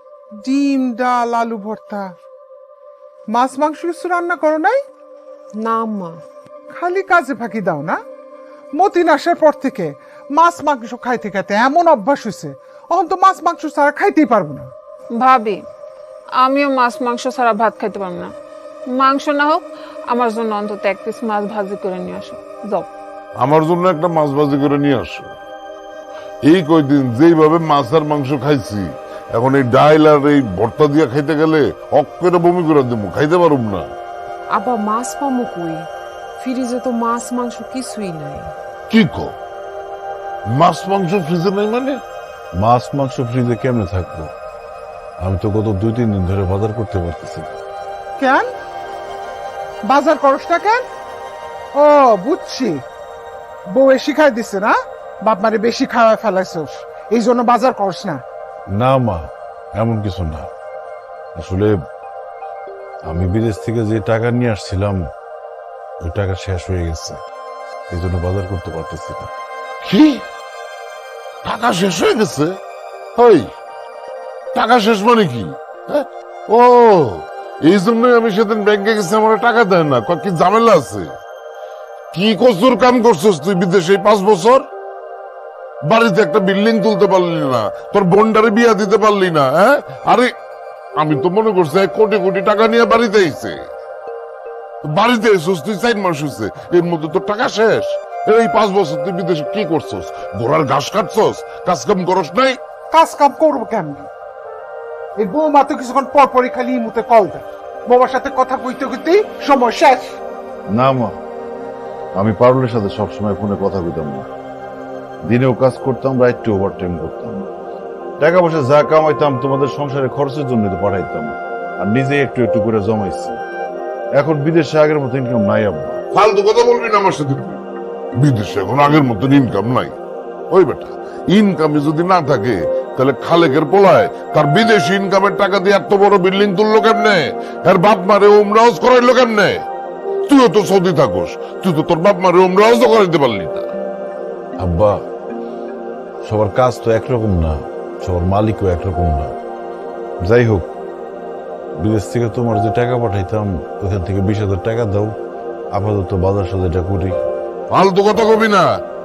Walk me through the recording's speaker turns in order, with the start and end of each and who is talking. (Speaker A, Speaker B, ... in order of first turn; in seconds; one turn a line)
Speaker A: 0.3-2.1
Speaker A: 3.3-4.8
Speaker B: 5.6-6.2
Speaker A: 6.7-8.0
Speaker A: 8.7-14.7
Speaker C: 15.2-15.6
Speaker C: 16.4-18.3
Speaker C: 18.9-22.9
Speaker D: 23.4-25.3
Speaker D: 26.4-33.9
Speaker B: 34.5-38.5
Speaker D: 38.9-39.3
Speaker D: 40.5-42.0
Speaker E: 42.5-44.3
Speaker E: 45.2-47.6
Speaker A: 48.2-48.5
Speaker A: 49.9-50.9
Speaker A: 51.8-52.8
Speaker A: 53.7-58.2
Speaker E: 58.7-60.5
Speaker E: 61.4-61.7
Speaker E: 63.1-65.1
Speaker E: 66.0-67.2
Speaker E: 67.9-69.3
Speaker D: 69.8-70.2
Speaker D: 71.5-72.6
Speaker D: 73.2-73.5
Speaker D: 74.5-81.1
Speaker D: 82.1-84.7
Speaker D: 85.8-90.3
Speaker D: 91.0-93.6
Speaker D: 94.8-102.6
Speaker A: 102.9-104.1
Speaker A: 105.2-110.2
Speaker E: 110.7-111.2
Speaker E: 112.2-114.3
Speaker E: 115.3-117.5
Speaker E: 118.2-123.4
Speaker E: 124.2-126.0
Speaker D: 126.1-127.6
Speaker D: 128.2-129.9
Speaker D: 130.5-139.6
Speaker D: 140.3-143.7
Speaker E: 144.6-145.0
Speaker E: 146.2-149.3
Speaker E: 150.2-150.7
Speaker E: 151.8-155.2
Speaker E: 155.7-157.2
Speaker D: 157.7-158.7